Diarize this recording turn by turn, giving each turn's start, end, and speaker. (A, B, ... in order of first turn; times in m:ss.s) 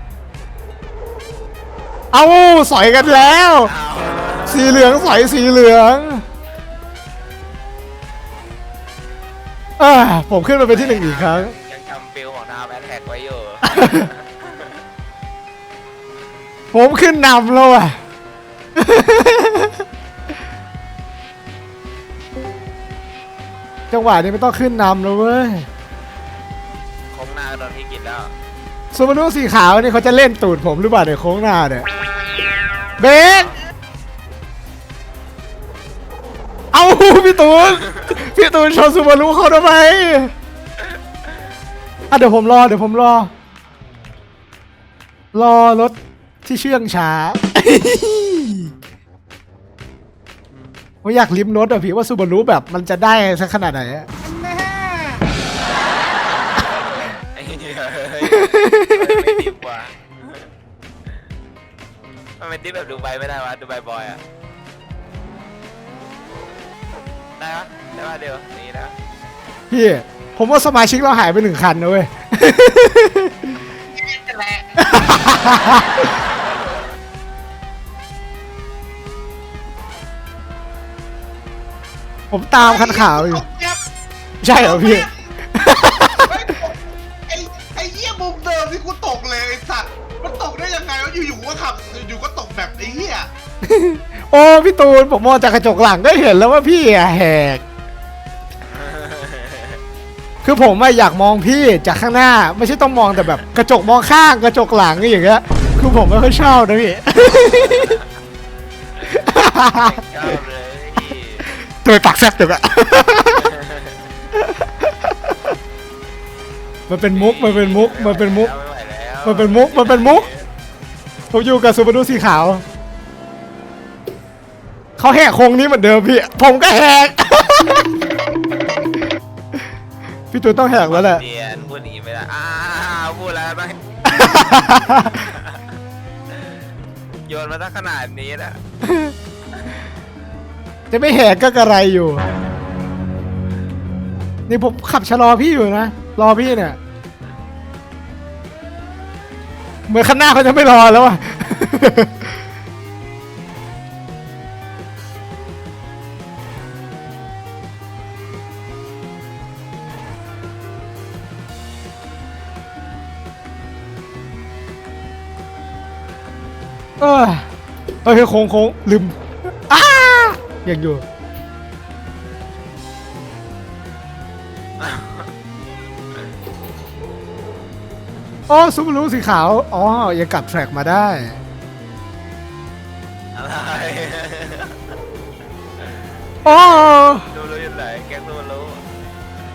0:02.1-0:03.7 A
0:03.0-0:04.9 B
0:04.5-0:06.2 A
0:09.8-0:11.5 A
0:10.7-0:14.8 B
0:13.7-0:14.1 A
0:16.7-0:18.0 A
0:18.8-0:19.8 A
0:23.9-0:25.7 A
0:27.1-0:28.3 B
0:28.9-0:31.9 A
0:33.0-0:33.6 A
0:36.7-0:40.3 A
0:42.1-0:43.3 A
0:45.3-0:48.7 A
0:51.0-0:54.1 A
0:57.4-1:00.5 B
0:58.3-0:59.4 A
1:02.4-1:04.2 B
1:07.4-1:09.0 B
1:09.7-1:13.5 A
1:13.9-1:14.7 C
1:14.8-1:16.1 A
1:22.3-1:23.4 A
1:22.6-1:23.8 C
1:24.4-1:26.4 A
1:24.5-1:25.1 C
1:26.2-1:33.3 C
1:33.6-1:37.6 A
1:38.7-1:39.8 B
1:40.4-1:48.0 A
1:49.2-1:50.0 A
1:49.6-1:51.5 B
1:51.8-1:53.5 A
1:53.4-1:54.0 B
1:54.4-1:54.9 A
1:56.9-1:58.5 A
1:57.1-2:00.5 B
1:59.2-2:00.3 A
2:01.3-2:02.6 A
2:05.0-2:07.9 A
2:10.3-2:11.2 A
2:10.8-2:13.8 B
2:14.0-2:15.2 A
2:15.3-2:15.6 B
2:17.3-2:18.6 B
2:18.8-2:19.1 A
2:20.9-2:22.2 A
2:24.5-2:26.8 A
2:29.9-2:32.3 A
2:47.0-2:47.5 A
2:48.0-2:49.2 A
2:49.7-2:51.0 A
2:54.8-2:55.3 B
2:58.5-3:01.4 A
3:03.4-3:04.8 B
3:06.4-3:08.8 B
3:06.4-3:07.3 A